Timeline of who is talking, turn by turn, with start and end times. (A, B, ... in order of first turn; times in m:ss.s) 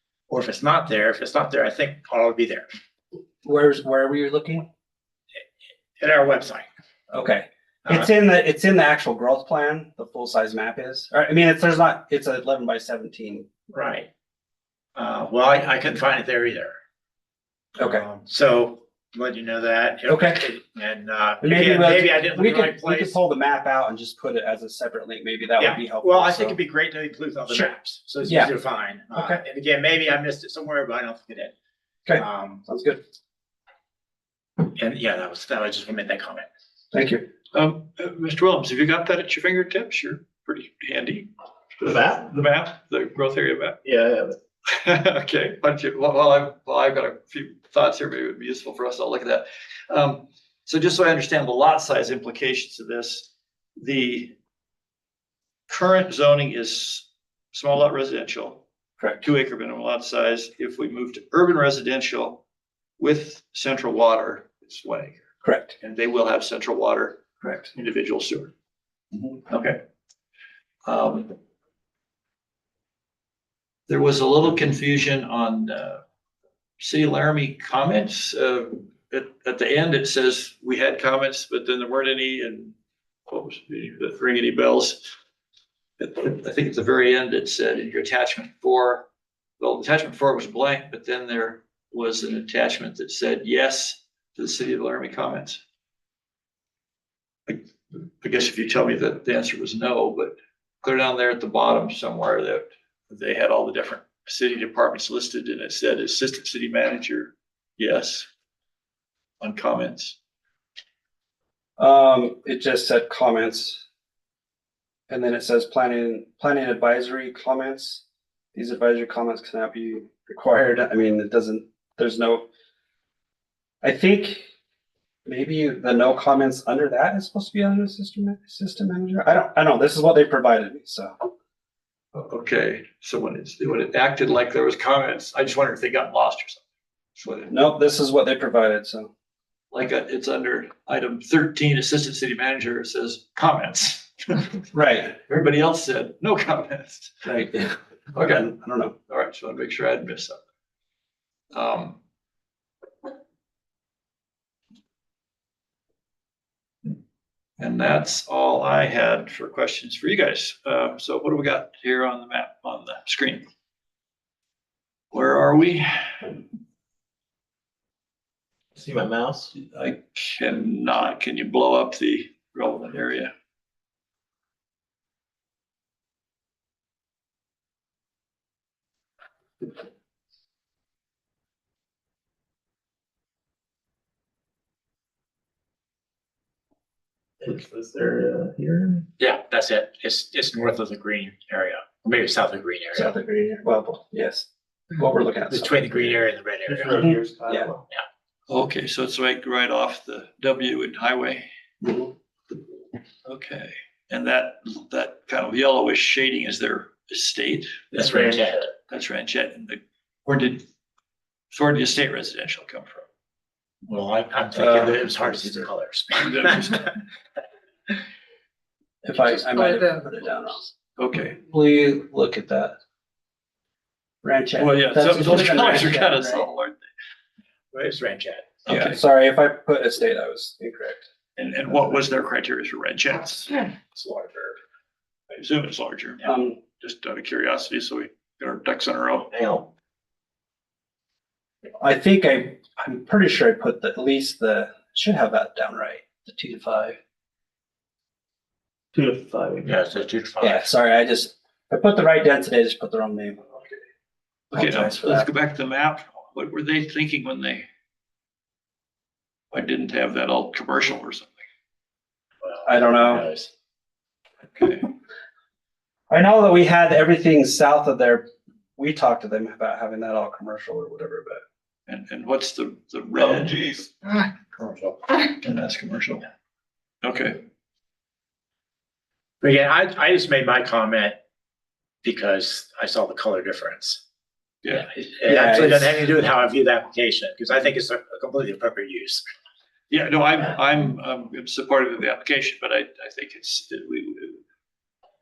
0:00.3-0:02.6 A
0:03.4-0:04.6 B
0:06.0-0:06.6 A
0:07.1-0:13.5 B
0:13.7-0:14.1 A
0:15.0-0:16.7 A
0:17.8-0:18.0 B
0:17.8-0:23.2 A
0:20.1-0:20.4 B
0:21.4-0:26.6 B
0:25.6-0:31.5 A
0:28.2-0:28.5 B
0:29.1-0:29.4 B
0:32.0-0:33.0 B
0:32.2-0:32.6 A
0:34.7-0:36.4 A
0:36.9-0:37.2 B
0:37.5-0:41.3 C
0:41.8-0:43.8 C
0:41.8-0:42.3 D
0:43.8-0:44.4 D
0:44.7-0:54.4 C
0:55.7-0:58.6 C
0:59.0-0:59.2 B
0:59.2-1:02.4 C
1:03.0-1:05.2 C
1:05.4-1:05.7 B
1:05.8-1:08.5 C
1:09.5-1:09.8 C
1:10.8-1:11.4 C
1:13.9-1:16.0 C
1:16.8-1:22.7 C
1:23.3-1:25.0 C
1:26.0-1:29.0 C
1:29.6-1:35.6 C
1:37.5-1:48.3 C
1:49.4-1:50.2 C
1:51.8-1:53.8 B
1:55.1-1:58.0 B
1:58.5-2:02.5 B
2:03.8-2:04.4 B
2:05.2-2:11.1 B
2:12.1-2:16.6 C
2:17.2-2:17.5 C
2:17.5-2:19.1 B
2:19.7-2:24.6 C
2:24.7-2:25.2 B
2:25.3-2:28.5 C
2:27.3-2:28.9 B
2:29.1-2:30.4 C
2:31.5-2:32.0 C
2:37.6-2:43.4 C
2:45.1-2:46.4 C
2:48.7-2:49.5 D
2:49.6-2:53.3 C
3:07.4-3:09.0 D
3:09.2-3:13.1 A
3:12.9-3:16.1 B
3:15.5-3:17.0 A
3:16.7-3:17.8 D
3:17.0-3:17.7 B
3:18.5-3:21.4 C
3:21.8-3:22.1 B
3:23.2-3:27.8 C
3:27.9-3:28.7 A
3:28.9-3:30.6 C
3:31.5-3:33.0 C
3:33.8-3:36.8 A
3:34.6-3:35.5 B
3:36.1-3:37.0 C
3:39.0-3:40.7 B
3:41.0-3:41.4 C
3:41.3-3:42.7 B
3:44.2-3:46.4 B
3:44.6-3:46.8 C
3:47.7-3:48.4 A
3:48.6-3:49.0 C
3:48.7-3:51.0 B
3:51.4-3:53.7 C
3:53.9-3:54.6 A
3:55.3-3:56.3 C
3:56.2-3:56.6 B
3:56.8-3:59.3 C
3:59.3-3:59.7 D
4:01.8-4:07.0 B
4:08.9-4:09.7 D
4:09.6-4:10.7 A
4:10.4-4:13.7 B
4:14.5-4:17.6 C
4:14.5-4:15.3 B
4:19.5-4:21.3 C
4:22.4-4:23.5 A
4:22.6-4:23.3 B
4:24.5-4:24.9 C
4:26.1-4:28.2 B
4:28.8-4:31.4 B
4:31.9-4:33.9 C
4:34.0-4:35.0 A
4:35.3-4:36.2 C
4:37.0-4:37.4 C
4:39.4-4:41.2 A
4:42.0-4:44.0 A
4:44.7-4:49.2 A
4:45.2-4:45.9 B
4:49.9-4:54.4 C